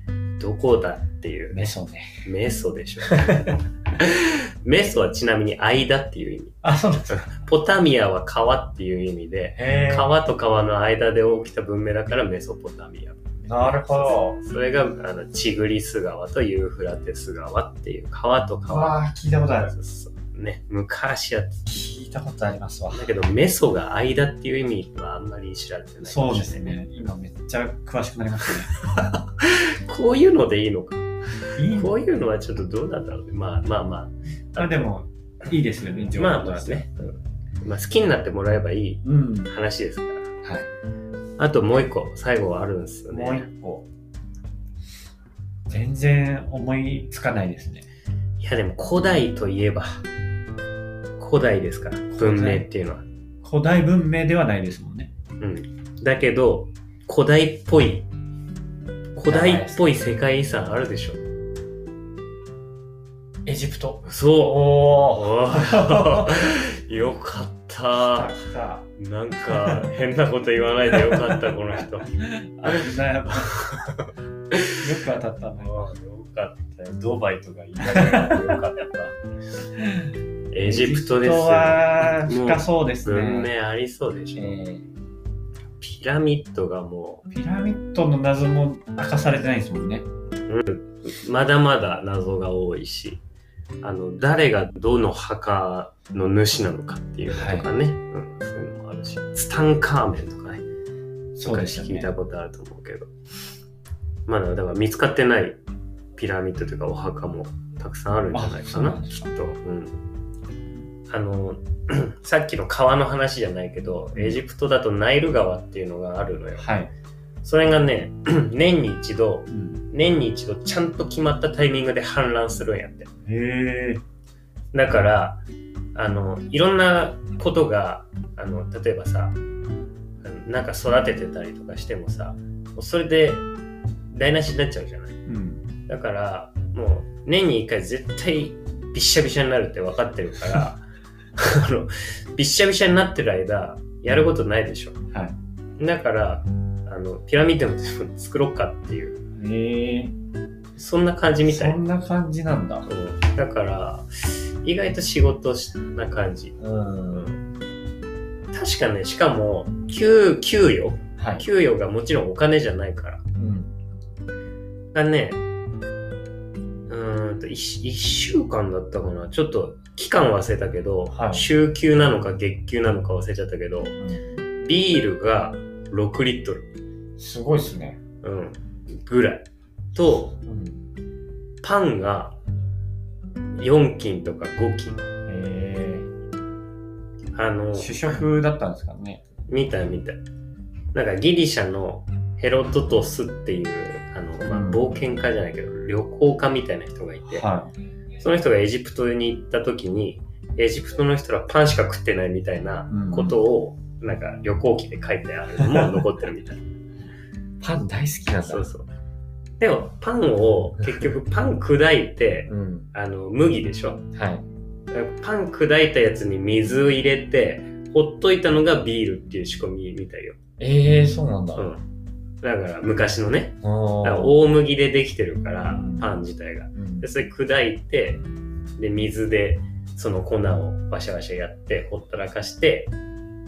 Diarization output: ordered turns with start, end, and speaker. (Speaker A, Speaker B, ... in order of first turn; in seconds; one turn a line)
Speaker A: 0.4-1.6
Speaker B: 1.5-2.3
Speaker A: 2.2-6.6
Speaker B: 3.1-3.6
Speaker B: 6.6-7.3
Speaker A: 7.1-19.0
Speaker B: 9.6-10.2
Speaker B: 13.4-14.4
Speaker B: 18.6-19.7
Speaker A: 19.6-21.8
Speaker B: 21.7-23.1
Speaker A: 22.9-26.8
Speaker B: 26.1-28.8
Speaker A: 28.7-34.9
Speaker B: 31.6-31.9
Speaker B: 34.6-36.9
Speaker A: 36.1-40.3
Speaker B: 39.0-39.5
Speaker A: 41.4-43.5
Speaker B: 43.1-43.9
Speaker B: 45.7-47.9
Speaker A: 48.4-50.0
Speaker A: 51.2-53.1
Speaker B: 52.1-52.7
Speaker B: 53.4-55.1
Speaker A: 55.4-58.1
Speaker A: 59.2-61.2
Speaker B: 59.2-60.2
Speaker B: 63.5-66.7
Speaker A: 64.1-68.3
Speaker B: 68.0-68.9
Speaker A: 69.0-72.8
Speaker B: 69.5-69.9
Speaker B: 70.9-71.4
Speaker B: 72.2-73.9
Speaker A: 73.5-74.8
Speaker B: 74.8-75.9
Speaker A: 75.6-79.2
Speaker B: 78.0-78.4
Speaker B: 79.8-83.5
Speaker A: 80.5-84.6
Speaker B: 84.3-84.9
Speaker A: 85.8-87.3
Speaker B: 87.3-90.1
Speaker A: 90.5-93.2
Speaker A: 93.8-100.6
Speaker B: 97.3-97.7
Speaker B: 101.4-102.1
Speaker A: 101.4-103.1
Speaker A: 104.3-105.6
Speaker A: 106.2-110.0
Speaker B: 108.3-109.3
Speaker A: 111.1-116.7
Speaker B: 114.1-114.4
Speaker B: 116.6-116.9
Speaker A: 117.4-123.1
Speaker B: 119.5-119.9
Speaker B: 123.3-124.0
Speaker A: 124.7-125.4
Speaker A: 126.0-129.4
Speaker A: 130.2-133.5
Speaker A: 134.1-135.2
Speaker B: 135.3-135.6
Speaker A: 135.9-140.8
Speaker A: 141.4-145.0
Speaker A: 145.8-149.2
Speaker B: 149.4-150.1
Speaker A: 150.8-151.8
Speaker B: 151.5-152.9
Speaker A: 152.9-156.6
Speaker B: 156.6-157.3
Speaker A: 157.1-157.4
Speaker A: 158.5-163.2
Speaker B: 161.2-161.5
Speaker B: 163.4-163.7
Speaker A: 164.9-165.4
Speaker A: 166.9-173.9
Speaker B: 171.1-171.5
Speaker B: 174.0-174.3
Speaker A: 174.6-176.7
Speaker B: 177.2-178.0
Speaker A: 178.2-180.4
Speaker B: 180.4-180.9
Speaker A: 181.6-182.4
Speaker A: 183.6-185.1
Speaker B: 185.3-186.1
Speaker A: 187.3-188.1
Speaker B: 187.7-189.2
Speaker A: 189.5-190.2
Speaker A: 190.9-197.5
Speaker B: 194.5-194.8
Speaker B: 197.3-197.7
Speaker A: 198.2-206.6
Speaker B: 202.9-203.4
Speaker B: 207.6-208.7
Speaker A: 208.4-208.9
Speaker A: 209.6-214.1
Speaker B: 212.5-212.9
Speaker B: 214.1-214.4
Speaker A: 214.9-220.4
Speaker B: 220.6-221.7
Speaker A: 221.6-221.8
Speaker A: 222.4-228.2
Speaker B: 223.6-224.4
Speaker B: 225.7-226.1
Speaker B: 226.8-227.1
Speaker A: 228.8-232.9